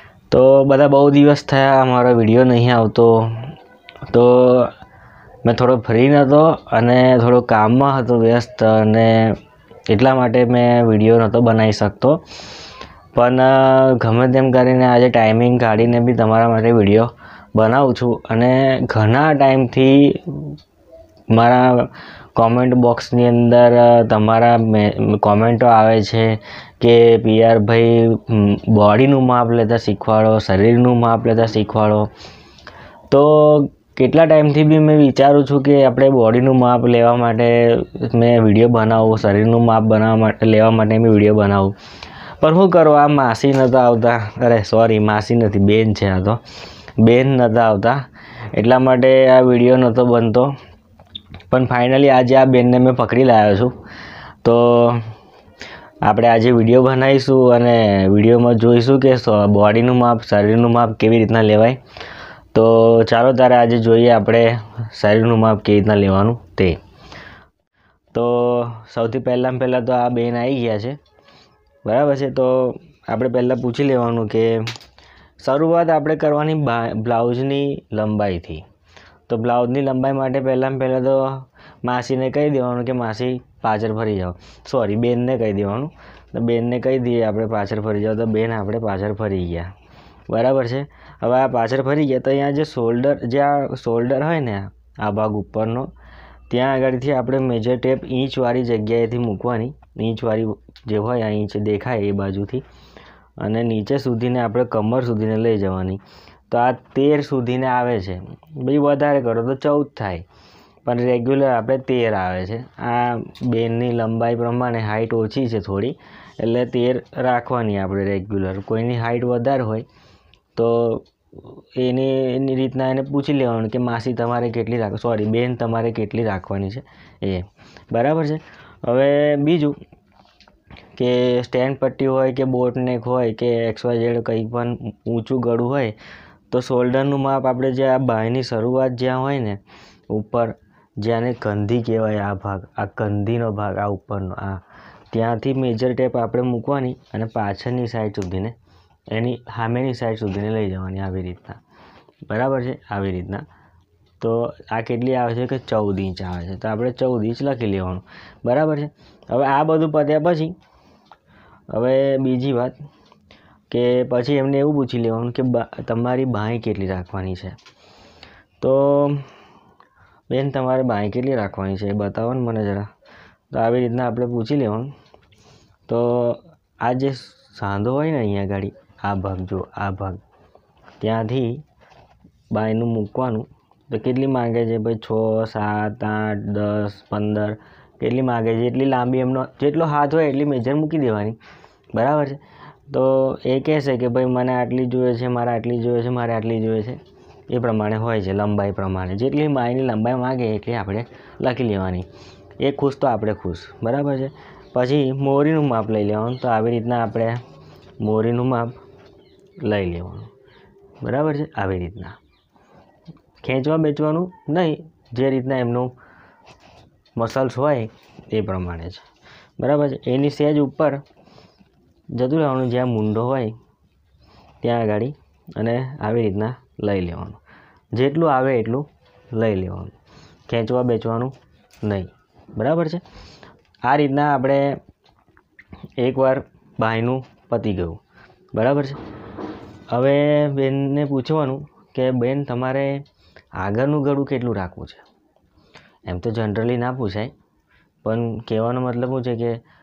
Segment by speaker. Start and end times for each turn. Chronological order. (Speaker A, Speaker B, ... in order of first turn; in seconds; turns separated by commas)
Speaker A: 0.3-3.5, Speaker A: 4.1-4.7, Speaker A: 5.4-9.4, Speaker A: 9.9-12.2, Speaker A: 13.1-20.6, Speaker A: 21.3-32.1, Speaker A: 33.1-41.7, Speaker A: 42.4-46.4, Speaker A: 47.0-48.0, Speaker A: 48.5-50.5, Speaker A: 51.5-53.7, Speaker A: 54.4-55.1, Speaker A: 56.0-61.8, Speaker A: 62.5-66.8, Speaker A: 68.1-71.0, Speaker A: 71.8-74.7, Speaker A: 75.4-78.6, Speaker A: 79.3-89.7, Speaker A: 90.3-95.9, Speaker A: 96.5-102.6, Speaker A: 103.4-110.2, Speaker A: 110.8-119.8, Speaker A: 120.5-129.8, Speaker A: 130.9-135.9, Speaker A: 136.5-148.5, Speaker A: 149.1-151.6, Speaker A: 152.3-153.4, Speaker A: 154.2-160.6, Speaker A: 161.7-162.8, Speaker A: 163.7-167.6, Speaker A: 168.6-169.2, Speaker A: 170.3-172.9, Speaker A: 173.5-174.9, Speaker A: 175.9-180.2, Speaker A: 181.0-181.6, Speaker A: 182.5-191.4, Speaker A: 191.9-202.1, Speaker A: 202.6-207.4, Speaker A: 208.0-208.8, Speaker A: 209.6-210.3, Speaker A: 211.0-212.2, Speaker A: 213.4-215.9, Speaker A: 217.2-219.0, Speaker A: 219.6-221.0, Speaker A: 222.1-223.6, Speaker A: 224.6-227.4, Speaker A: 227.9-229.9, Speaker A: 230.5-233.0, Speaker A: 233.8-234.8, Speaker A: 236.0-238.0, Speaker A: 238.5-239.0, Speaker A: 239.9-243.0, Speaker A: 243.6-245.0, Speaker A: 246.1-247.3, Speaker A: 248.0-249.6